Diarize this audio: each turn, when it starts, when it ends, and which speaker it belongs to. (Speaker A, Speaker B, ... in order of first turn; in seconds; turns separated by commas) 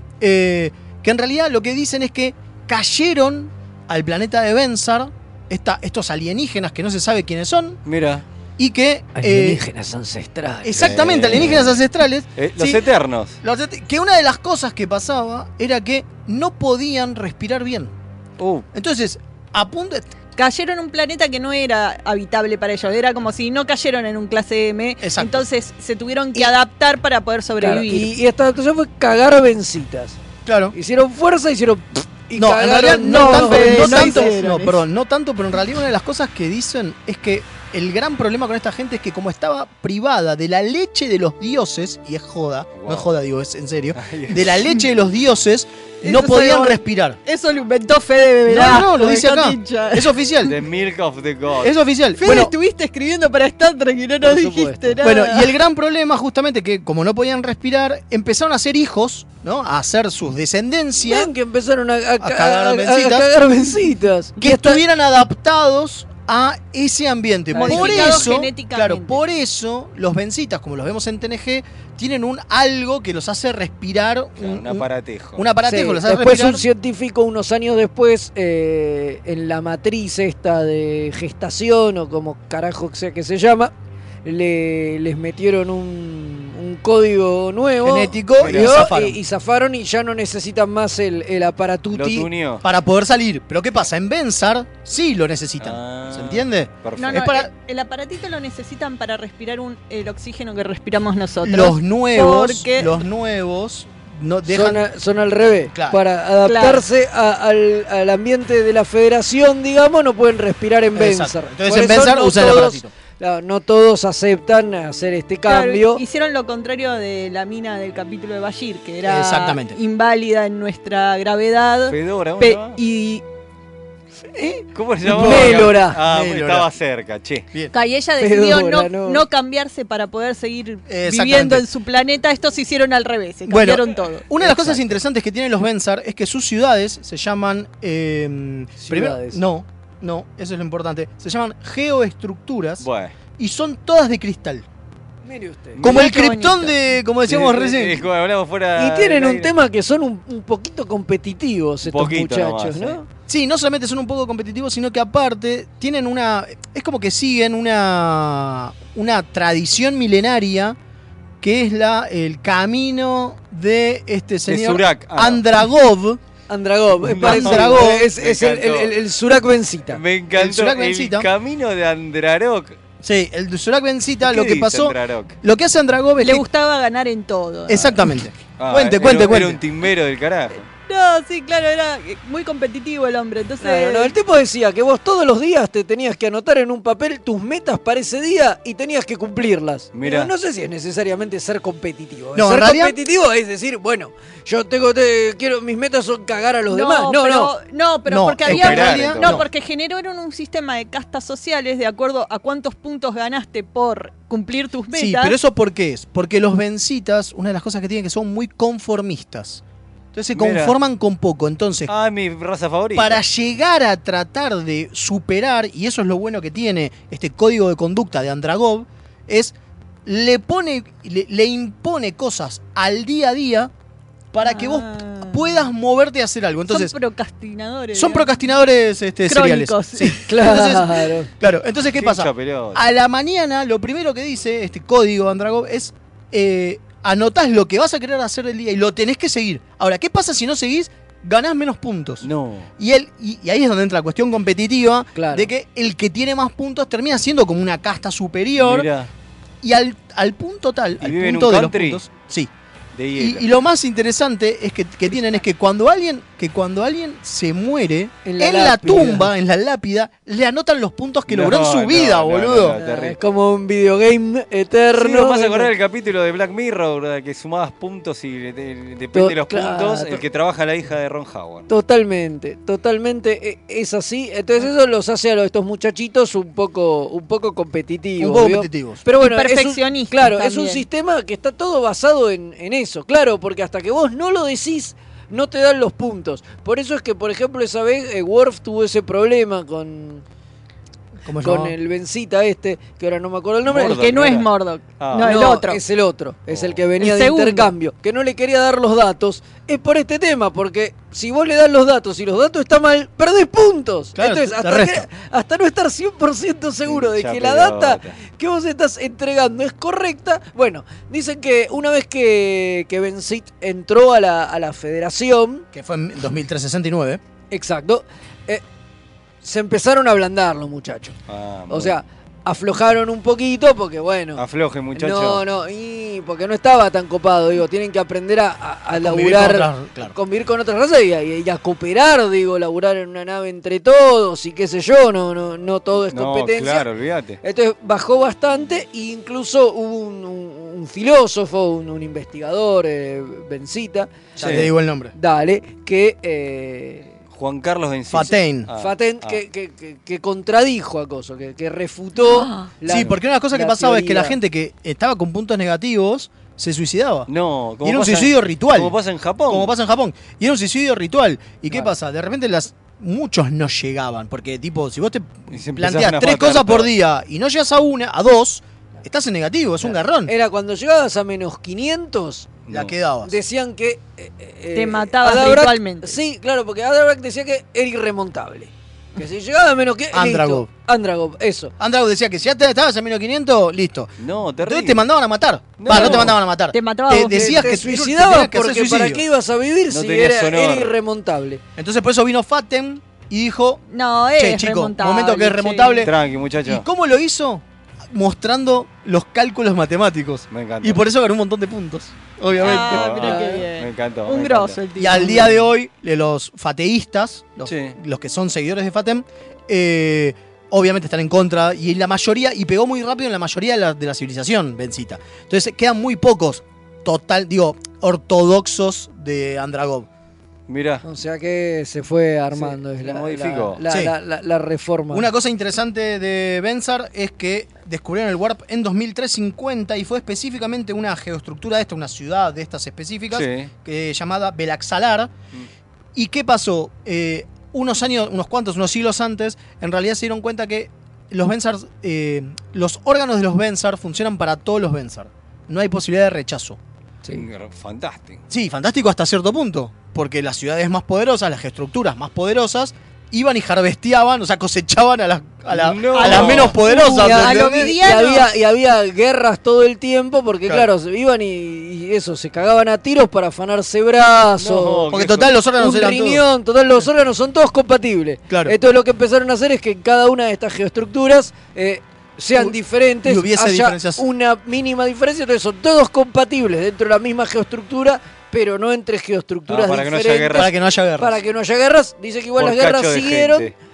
Speaker A: 0.2-7.8, Speaker B: 7.8-8.2, Speaker A: 8.6-9.6, Speaker C: 9.2-11.4, Speaker A: 10.6-12.8, Speaker B: 10.8-11.8, Speaker B: 12.4-13.4, Speaker A: 13.4-17.9, Speaker B: 18.4-18.6, Speaker A: 18.7-20.1, Speaker D: 20.4-28.1, Speaker A: 25.0-25.4, Speaker C: 27.6-30.2, Speaker A: 30.4-30.7, Speaker C: 30.7-34.3, Speaker A: 32.3-47.2, Speaker D: 33.0-34.8, Speaker B: 42.7-43.1, Speaker B: 44.0-44.6, Speaker D: 46.0-50.1, Speaker A: 48.5-50.5, Speaker B: 50.5-51.7, Speaker A: 51.6-52.5, Speaker D: 52.2-55.6, Speaker C: 54.2-55.0, Speaker A: 55.0-61.3, Speaker C: 61.0-64.8, Speaker A: 62.2-63.3, Speaker A: 64.4-76.6, Speaker C: 67.5-68.3, Speaker D: 67.5-69.2, Speaker B: 74.4-75.4, Speaker C: 75.7-83.7, Speaker C: 84.2-92.3, Speaker A: 87.8-89.2, Speaker B: 88.4-88.9, Speaker B: 91.9-92.6, Speaker A: 92.6-97.5, Speaker B: 95.6-97.2, Speaker D: 97.0-103.0, Speaker A: 101.4-104.8, Speaker C: 104.5-116.0, Speaker A: 105.7-106.0, Speaker D: 106.4-106.8, Speaker A: 110.9-112.9, Speaker D: 115.5-123.2, Speaker A: 119.0-119.8, Speaker B: 121.9-122.8, Speaker A: 124.4-126.7, Speaker B: 124.7-127.5, Speaker C: 125.1-126.0, Speaker D: 127.7-134.3, Speaker C: 128.2-129.2, Speaker A: 130.9-131.6, Speaker A: 133.4-142.8, Speaker C: 138.8-139.4, Speaker B: 142.8-143.1, Speaker A: 143.4-144.6, Speaker C: 145.2-145.8, Speaker A: 145.8-148.0, Speaker D: 145.8-146.7, Speaker B: 147.2-149.5, Speaker C: 148.8-153.1, Speaker B: 151.8-153.0, Speaker A: 153.3-160.8, Speaker A: 161.4-166.2, Speaker B: 164.5-165.4, Speaker C: 166.5-170.0, Speaker B: 167.0-168.9, Speaker A: 167.2-168.1, Speaker B: 169.9-172.8, Speaker A: 170.3-171.3, Speaker A: 173.0-176.4, Speaker B: 174.2-175.4, Speaker D: 176.2-178.0, Speaker A: 177.7-179.6, Speaker B: 178.6-180.6, Speaker D: 180.9-184.1, Speaker C: 183.6-197.5, Speaker B: 189.9-190.3, Speaker A: 192.3-192.9, Speaker D: 196.7-205.3, Speaker A: 198.1-199.4, Speaker B: 198.4-199.4, Speaker A: 204.9-209.6, Speaker A: 210.1-211.9, Speaker B: 210.3-210.8, Speaker B: 211.9-213.2, Speaker A: 212.9-219.5, Speaker A: 220.1-223.7, Speaker A: 224.3-226.9, Speaker D: 224.4-225.7, Speaker D: 226.7-228.3, Speaker A: 227.9-242.3, Speaker D: 229.3-230.2, Speaker C: 230.3-231.3, Speaker B: 231.9-232.8, Speaker B: 242.2-242.7, Speaker A: 242.8-248.9, Speaker C: 245.1-245.5, Speaker B: 248.6-249.1, Speaker A: 249.6-252.5, Speaker B: 251.0-252.0, Speaker B: 252.9-253.5, Speaker A: 253.2-262.8, Speaker C: 258.2-259.3, Speaker B: 261.3-263.2, Speaker C: 262.8-265.7, Speaker B: 264.9-271.7, Speaker C: 269.1-270.2, Speaker C: 271.7-290.2, Speaker A: 278.2-279.0, Speaker D: 279.2-280.8, Speaker A: 291.2-291.7, Speaker C: 291.4-294.1, Speaker B: 293.6-295.5, Speaker D: 293.8-295.8, Speaker C: 295.2-315.6, Speaker B: 296.5-296.8, Speaker D: 297.0-297.7, Speaker A: 304.1-305.1, Speaker B: 306.9-308.1, Speaker A: 315.7-317.2, Speaker C: 317.5-318.6, Speaker C: 319.4-321.2, Speaker B: 321.3-321.9, Speaker C: 321.7-324.4, Speaker B: 324.4-325.4, Speaker C: 324.9-336.9, Speaker A: 328.9-330.1, Speaker B: 336.1-337.4, Speaker C: 337.4-347.2, Speaker A: 344.4-345.1, Speaker B: 344.4-344.7, Speaker B: 347.3-349.4, Speaker A: 348.1-348.7, Speaker C: 348.8-354.4, Speaker D: 352.2-352.7, Speaker A: 352.9-357.3, Speaker B: 357.3-359.7, Speaker A: 357.8-358.9, Speaker A: 359.5-370.3, Speaker B: 365.5-366.9, Speaker C: 369.8-372.6, Speaker B: 372.7-372.9, Speaker A: 372.7-373.3, Speaker C: 373.2-381.7, Speaker D: 374.7-376.2, Speaker A: 380.1-380.7, Speaker A: 381.8-389.2, Speaker B: 384.2-385.0, Speaker B: 385.8-386.4, Speaker D: 385.9-387.6, Speaker C: 387.3-391.6, Speaker B: 389.9-390.9, Speaker A: 391.8-393.8, Speaker D: 393.9-396.1, Speaker A: 394.4-396.1, Speaker B: 396.0-396.9, Speaker A: 396.6-403.3, Speaker B: 400.5-401.0, Speaker B: 402.6-404.8, Speaker D: 402.6-405.5, Speaker C: 403.2-403.6, Speaker A: 404.9-420.1, Speaker B: 407.6-408.0, Speaker B: 420.7-421.0, Speaker C: 421.0-425.3, Speaker B: 422.5-423.8, Speaker A: 423.9-424.1, Speaker A: 425.1-435.3, Speaker B: 433.3-433.7, Speaker A: 436.1-446.8, Speaker B: 447.3-448.4, Speaker A: 448.5-458.0, Speaker B: 455.7-456.8, Speaker D: 456.1-458.5, Speaker C: 456.9-465.1, Speaker B: 464.6-465.5, Speaker A: 465.1-466.4, Speaker C: 465.8-483.7, Speaker A: 468.5-468.7, Speaker A: 472.6-474.2, Speaker B: 479.7-480.7, Speaker A: 480.5-481.4, Speaker B: 482.6-483.7